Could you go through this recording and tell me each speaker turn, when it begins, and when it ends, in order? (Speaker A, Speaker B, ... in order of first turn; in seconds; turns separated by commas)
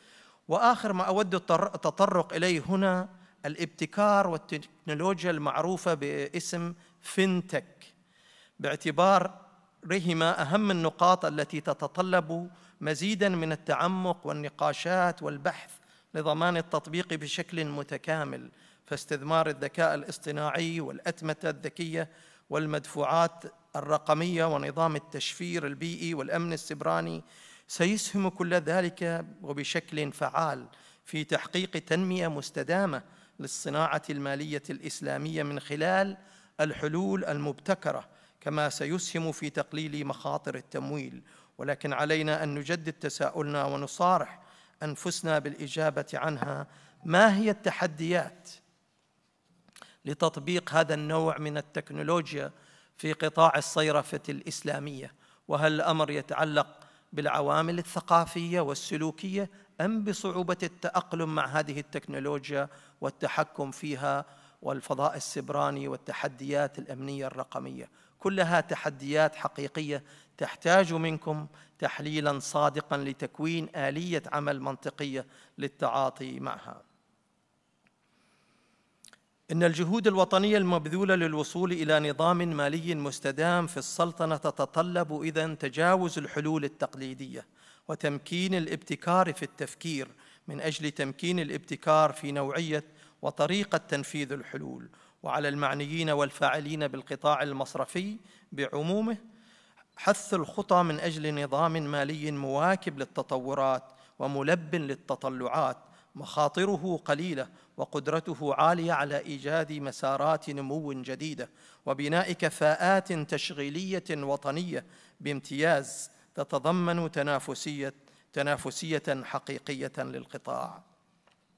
Speaker A: 0.5-7.9, Speaker A: 8.6-9.3, Speaker A: 9.9-48.6, Speaker A: 50.0-76.8, Speaker A: 79.5-99.2, Speaker A: 100.0-120.8